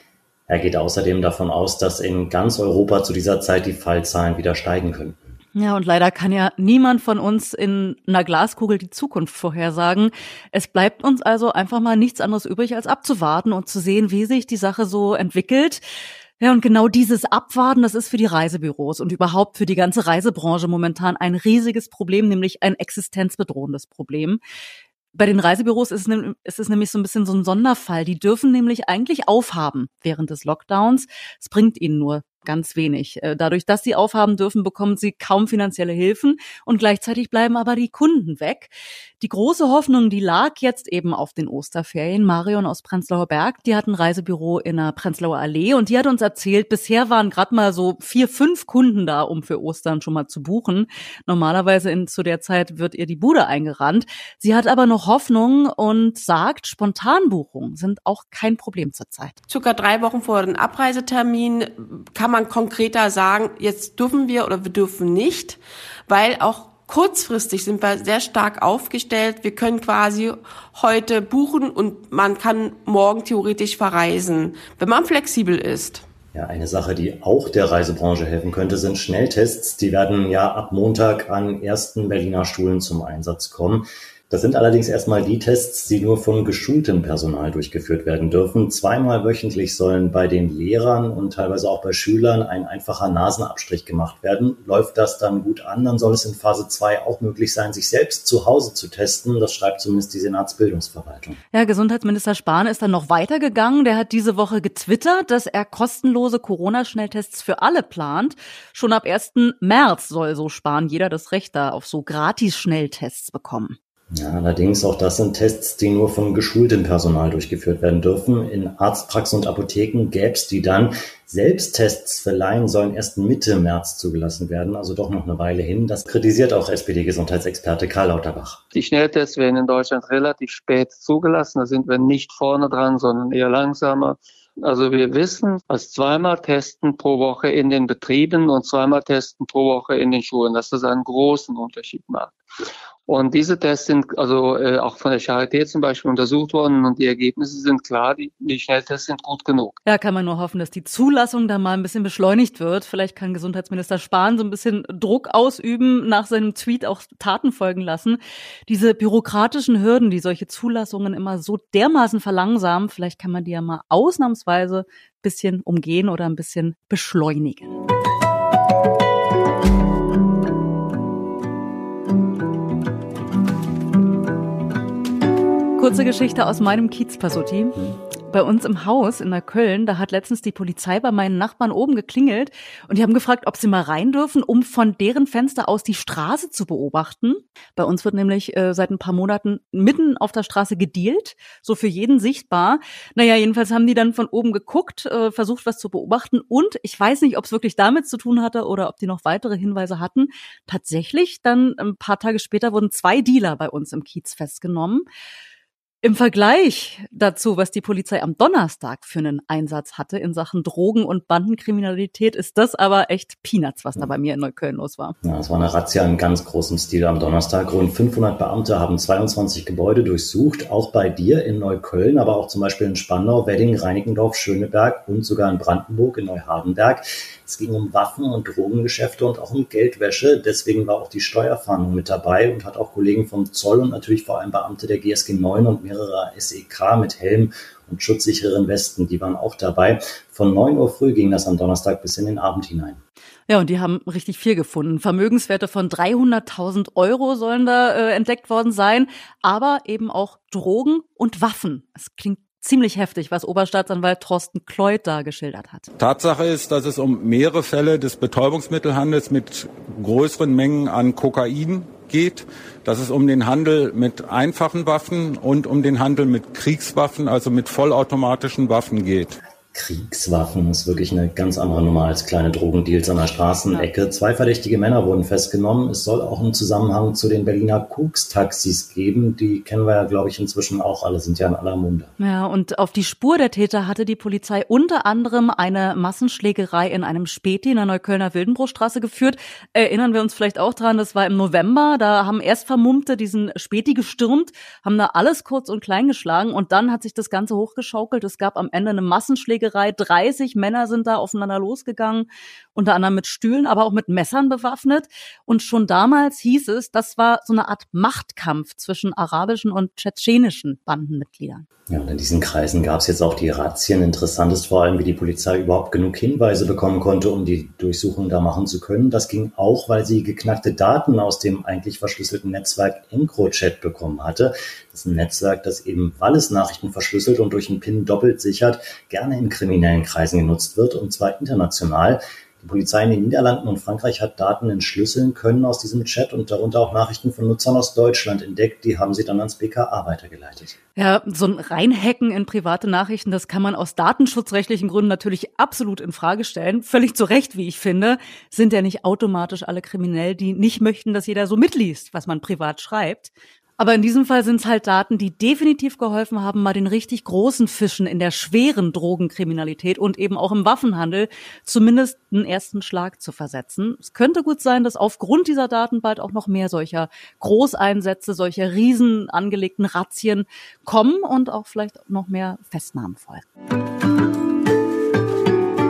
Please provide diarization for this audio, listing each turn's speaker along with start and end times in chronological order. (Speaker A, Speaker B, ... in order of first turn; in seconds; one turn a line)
Speaker A: 0.5-5.2
Speaker B: 5.5-15.8
Speaker B: 16.4-24.4
Speaker B: 25.1-59.4
Speaker C: 59.5-76.0
Speaker A: 76.3-101.4
Speaker B: 101.5-113.8
Speaker A: 114.1-128.6
Speaker D: 128.7-142.3
Speaker D: 143.1-149.8
Speaker B: 149.9-167.8
Speaker B: 175.8-205.1
Speaker B: 206.0-215.2
Speaker A: 215.2-243.0
Speaker B: 243.5-255.9
Speaker E: 256.0-269.4
Speaker A: 269.7-282.1
Speaker B: 282.2-311.6
Speaker A: 311.9-340.8
Speaker B: 341.0-373.5